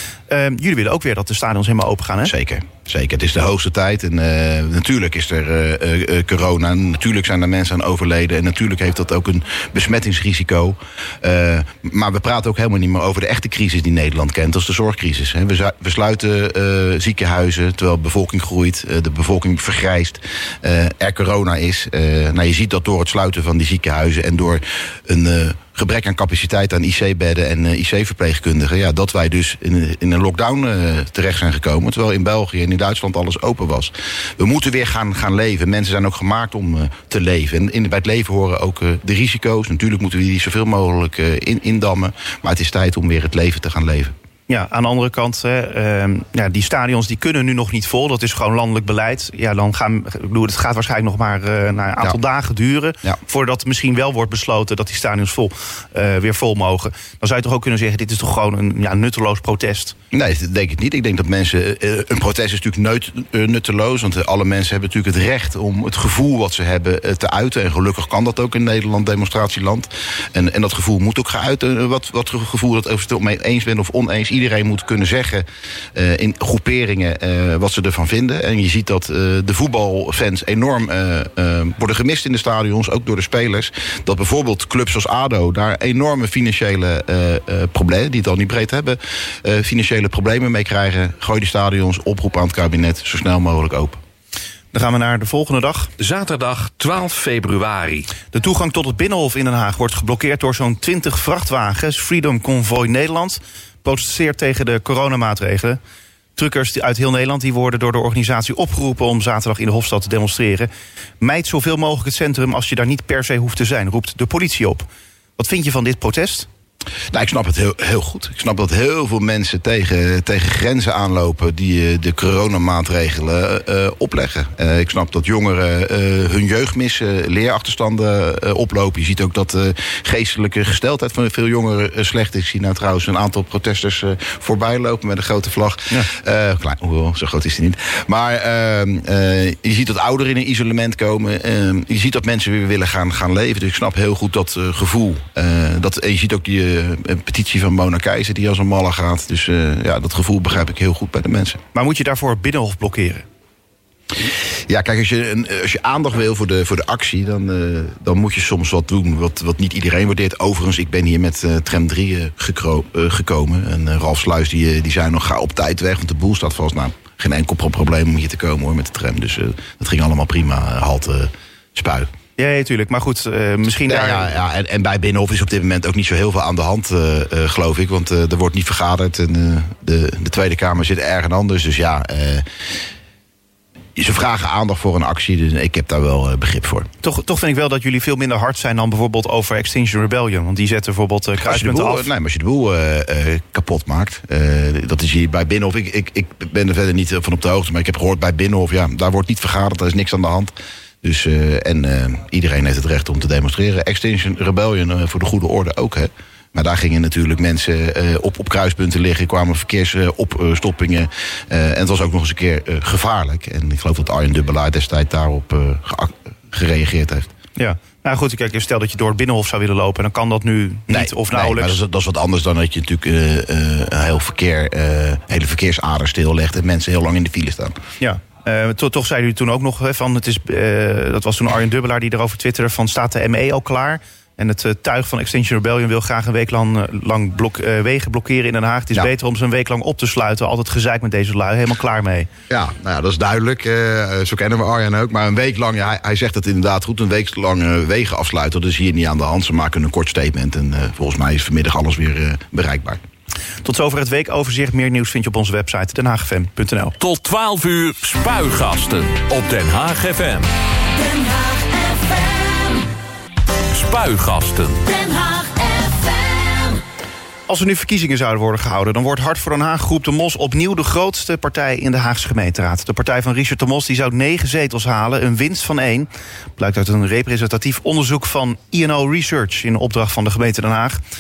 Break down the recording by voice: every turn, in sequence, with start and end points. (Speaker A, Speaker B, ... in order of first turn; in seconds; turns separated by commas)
Speaker A: 0.3-2.3, Speaker B: 2.2-44.1, Speaker A: 44.5-60.0, Speaker B: 60.1-94.0, Speaker A: 94.7-95.9, Speaker C: 96.0-98.1, Speaker A: 98.3-105.8, Speaker A: 106.4-110.7, Speaker A: 111.2-116.5, Speaker B: 117.1-151.6, Speaker A: 151.7-153.3, Speaker B: 154.2-172.1, Speaker A: 172.4-174.3, Speaker B: 173.9-182.4, Speaker B: 183.9-186.9, Speaker A: 187.0-192.1, Speaker B: 191.4-217.3, Speaker A: 217.6-221.8, Speaker B: 220.9-227.8, Speaker A: 228.0-242.3, Speaker B: 242.5-253.0, Speaker A: 253.6-256.9, Speaker C: 257.0-260.5, Speaker C: 263.7-265.3, Speaker A: 267.5-281.0